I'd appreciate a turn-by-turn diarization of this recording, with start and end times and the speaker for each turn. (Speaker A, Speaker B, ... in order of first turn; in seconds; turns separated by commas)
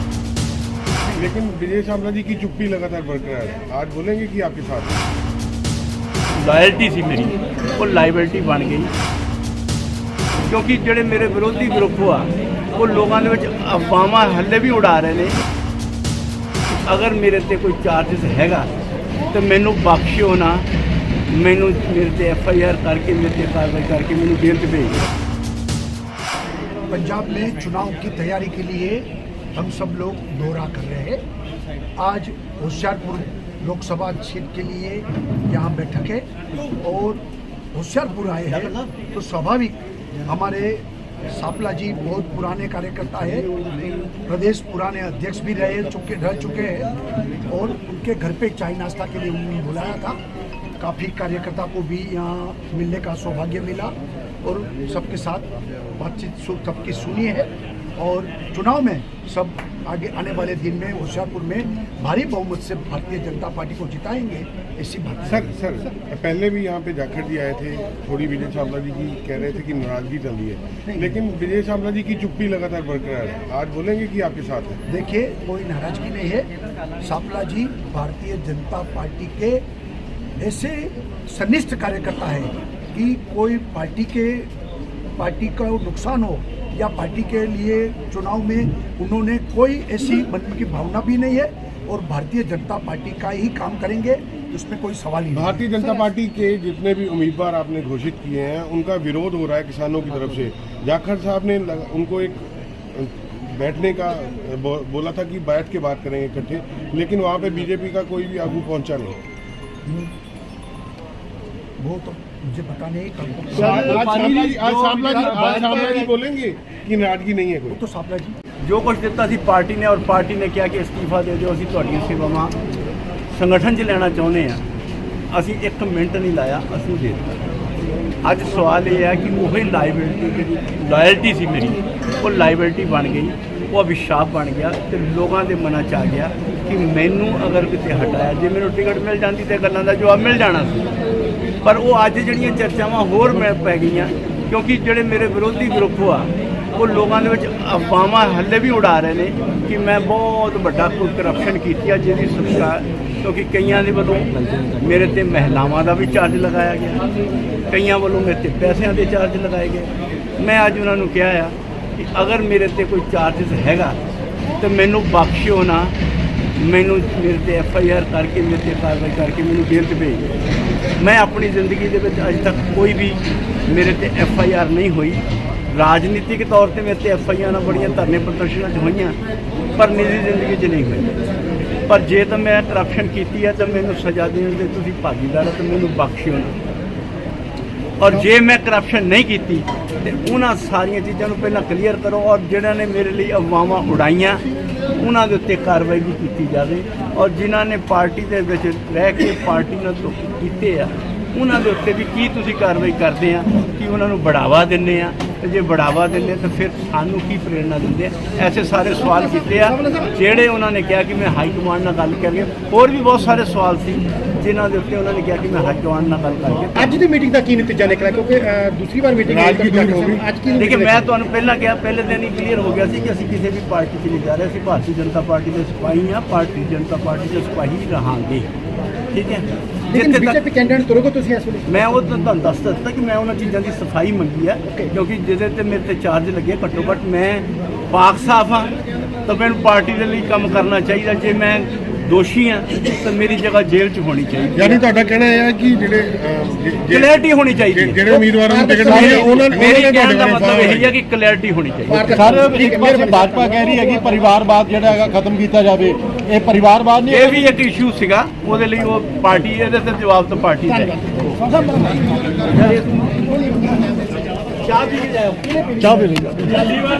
Speaker A: 1.1-5.0, Speaker B: 6.4-8.9, Speaker B: 10.4-15.4, Speaker B: 16.7-18.7, Speaker B: 19.3-20.7, Speaker B: 21.3-25.0, Speaker C: 26.9-31.2, Speaker C: 32.0-43.5, Speaker C: 44.3-46.9, Speaker C: 47.5-50.2, Speaker C: 50.8-55.5, Speaker C: 56.0-65.5, Speaker A: 65.3-74.8, Speaker C: 70.9-71.2, Speaker C: 74.9-76.5, Speaker C: 77.0-79.6, Speaker C: 80.4-84.5, Speaker C: 85.2-95.7, Speaker A: 95.3-109.2, Speaker C: 109.9-110.1, Speaker C: 111.8-114.1, Speaker A: 113.5-117.8, Speaker B: 113.5-116.1, Speaker C: 117.7-118.4, Speaker B: 118.6-122.5, Speaker B: 123.3-124.6, Speaker B: 125.3-127.4, Speaker B: 128.2-140.9, Speaker B: 141.6-157.0, Speaker B: 157.7-164.0, Speaker B: 164.6-165.9, Speaker B: 166.6-170.3, Speaker B: 171.0-179.2, Speaker B: 179.8-181.1, Speaker B: 181.9-186.6, Speaker B: 188.0-194.4, Speaker B: 195.0-216.9, Speaker D: 209.2-210.1, Speaker D: 216.7-221.1, Speaker A: 219.3-220.3, Speaker B: 220.6-228.5, Speaker B: 229.1-230.4, Speaker D: 229.9-231.9, Speaker B: 231.7-238.7, Speaker B: 239.2-244.8, Speaker A: 244.6-250.9, Speaker B: 246.9-248.0, Speaker D: 248.3-249.6, Speaker B: 248.8-252.3, Speaker D: 251.9-254.3, Speaker E: 252.1-257.4, Speaker B: 257.1-261.4, Speaker D: 260.7-264.1, Speaker B: 262.5-262.9, Speaker B: 264.6-266.7, Speaker D: 265.5-266.7